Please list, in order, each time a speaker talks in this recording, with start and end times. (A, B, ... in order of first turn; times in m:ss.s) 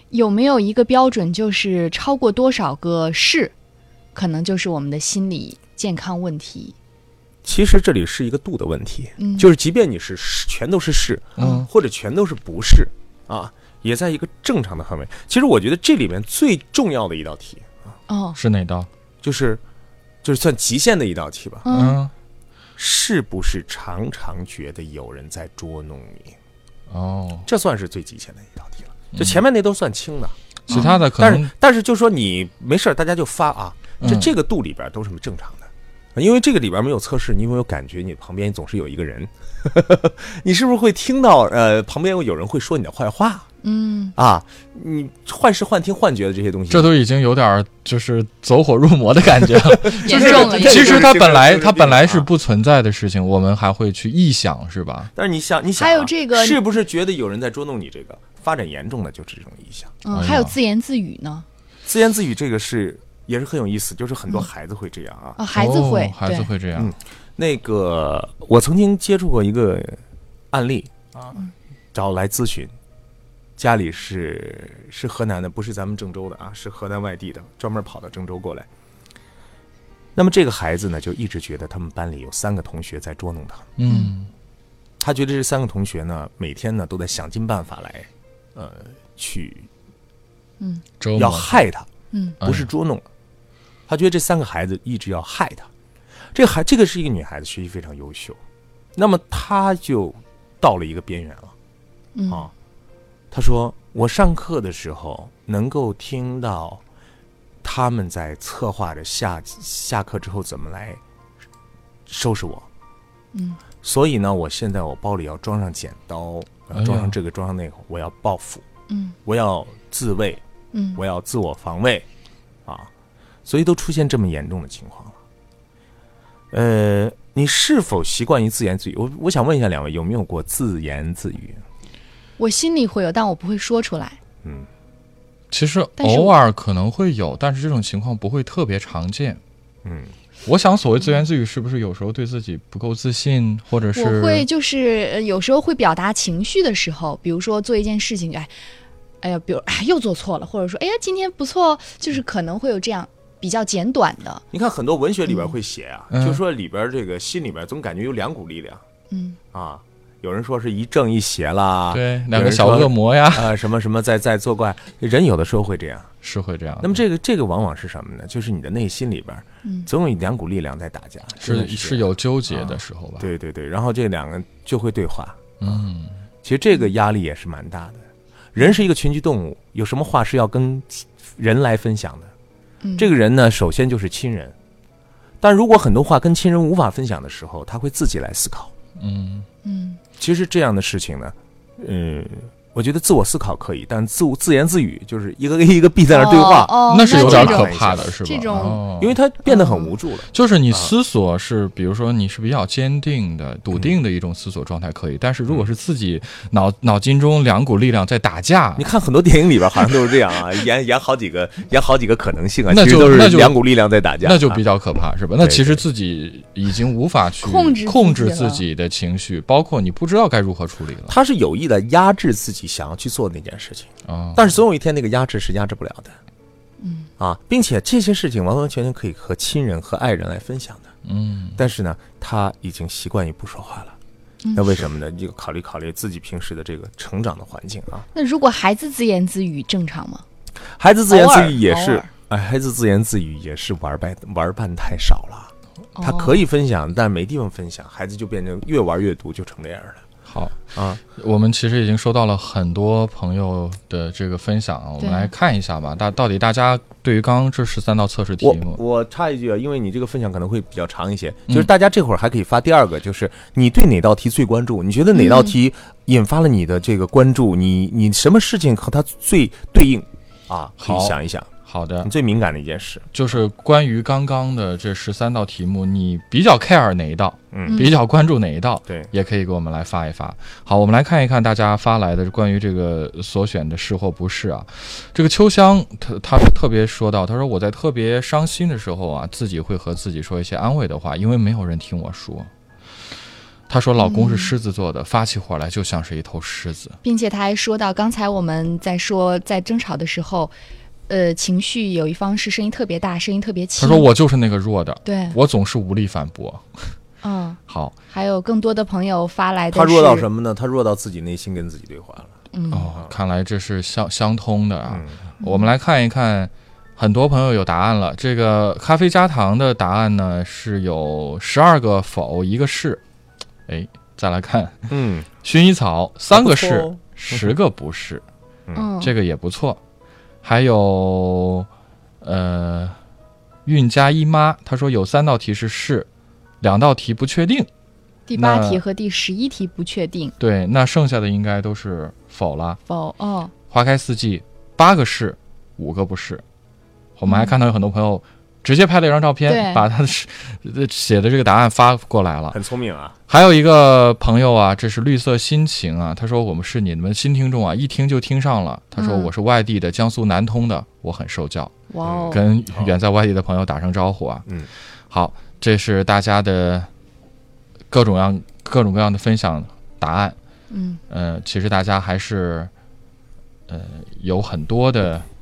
0:00.1-0:03.5 A
0:04.2-0:06.8 A
0:07.4-0:17.9 B
0:09.2-0:09.5 A
0:11.4-0:11.7 A
0:11.4-0:11.7 C
0:18.1-0:18.4 A
0:18.4-0:18.9 C
0:19.2-0:19.6 B
0:20.2-0:21.7 B
0:21.6-0:22.0 A
0:21.7-0:22.1 C
0:22.8-0:26.4 B
0:26.9-0:27.5 C
0:27.5-0:43.5 B
0:29.1-0:29.4 C
0:30.7-0:31.5 C
0:30.7-0:31.1 A
0:34.0-0:34.3 C
0:43.6-0:44.2 A
0:44.2-0:46.9 B
0:46.7-0:55.1 C
0:49.6-0:52.3 B
0:49.9-0:51.1 A
0:55.2-1:00.0 B
0:55.8-0:56.6 A
1:00.0-1:01.5 A
1:00.1-1:00.6 C
1:01.9-1:05.4 B
1:05.4-1:06.5 A
1:05.6-1:07.0 C
1:06.8-1:11.4 B
1:11.9-1:12.7 B
1:13.6-1:18.7 B
1:20.2-1:23.7 B
1:23.8-1:24.3 C
1:23.9-1:24.1 A
1:25.0-1:29.7 B
1:31.0-1:31.6 C
1:31.2-1:31.9 B
1:32.1-1:32.4 A
1:32.4-1:32.7 C
1:32.4-1:33.1 B
1:33.9-1:35.7 B
1:36.3-1:38.4 B
1:39.0-1:41.6 B
1:42.2-1:42.5 A
1:43.3-1:46.8 B
1:47.6-1:51.0 B
1:52.1-1:52.7 B
1:53.3-1:53.6 A
1:53.8-1:58.7 B
1:56.8-1:57.1 C
1:58.9-1:59.2 A
1:59.2-2:00.4 B
2:00.7-2:01.0 A
2:01.0-2:02.1 B
2:03.4-2:05.2 B
2:06.5-2:11.6 B
2:12.4-2:14.2 A
2:14.4-2:14.7 B
2:15.5-2:19.4 C
2:16.0-2:16.3 A
2:19.8-2:20.2 B
2:20.4-2:24.5 C
2:24.0-2:28.5 A
2:29.2-2:34.4 A
2:34.5-2:38.8 B
2:36.1-2:36.4 C
2:39.1-2:39.4 A
2:39.5-2:46.1 B
2:41.9-2:43.6 C
2:46.2-2:47.0 C
2:46.8-2:55.8 B
2:51.4-2:53.3 C
2:55.6-2:56.2 C
2:56.4-3:02.3 B
3:02.8-3:03.1 A
3:03.0-3:04.6 B
3:05.4-3:08.7 B
3:09.0-3:09.5 C
3:09.6-3:10.0 A
3:10.2-3:18.1 B
3:16.1-3:18.8 A
3:16.9-3:19.2 C
3:18.9-3:20.9 B
3:19.5-3:19.9 A
3:20.3-3:28.8 C
3:28.8-3:34.6 B
3:32.7-3:33.6 C
3:34.2-3:41.1 C
3:35.4-3:35.8 B
3:37.4-3:38.6 A
3:41.1-3:46.2 B
3:44.1-3:44.6 C
3:46.8-3:47.1 A
3:47.2-3:50.9 B
3:51.0-3:51.6 C
3:51.6-3:54.0 B
3:54.4-3:54.8 A
3:54.6-3:58.1 B
3:58.1-4:00.2 A
4:00.8-4:10.0 B
4:01.1-4:02.1 A
4:06.0-4:06.4 A
4:10.3-4:18.8 C
4:10.7-4:11.0 B
4:15.0-4:15.3 A
4:18.4-4:31.5 B
4:25.2-4:25.5 A
4:30.8-4:32.1 C
4:32.0-4:33.1 B
4:33.1-4:52.5 C
4:37.5-4:37.9 B
4:37.7-4:37.9 A
4:53.7-4:57.0 C
4:54.0-4:54.5 A
4:57.0-5:00.5 A
5:01.1-5:04.1 A
5:03.8-5:07.0 C
5:05.0-5:05.4 A
5:07.2-5:10.3 A
5:07.7-5:07.9 C
5:09.7-5:12.4 B
5:12.5-5:12.9 A
5:12.7-5:23.0 C
5:14.9-5:15.2 B
5:15.4-5:15.7 A
5:23.7-5:28.2 C
5:24.9-5:25.3 B
5:26.3-5:27.5 B
5:28.8-5:29.1 A
5:29.0-5:29.8 C
5:30.4-5:31.7 C
5:32.2-5:33.0 C
5:33.7-5:36.1 C
5:36.6-5:37.7 C
5:38.3-5:40.4 A
5:38.4-5:38.8 C
5:40.4-5:42.8 C
5:42.9-5:43.5 A
5:43.7-5:46.4 C
5:47.2-5:52.6 C
5:47.3-5:47.6 A
5:49.5-5:49.9 A
5:52.5-5:53.2 B
5:53.3-6:01.8 C
5:59.0-5:59.3 A
6:01.9-6:02.4 A
6:02.0-6:02.9 B
6:02.3-6:04.5 C
6:05.1-6:06.9 C
6:07.9-6:10.4 C
6:10.7-6:11.0 A
6:11.1-6:12.7 C
6:13.7-6:15.3 C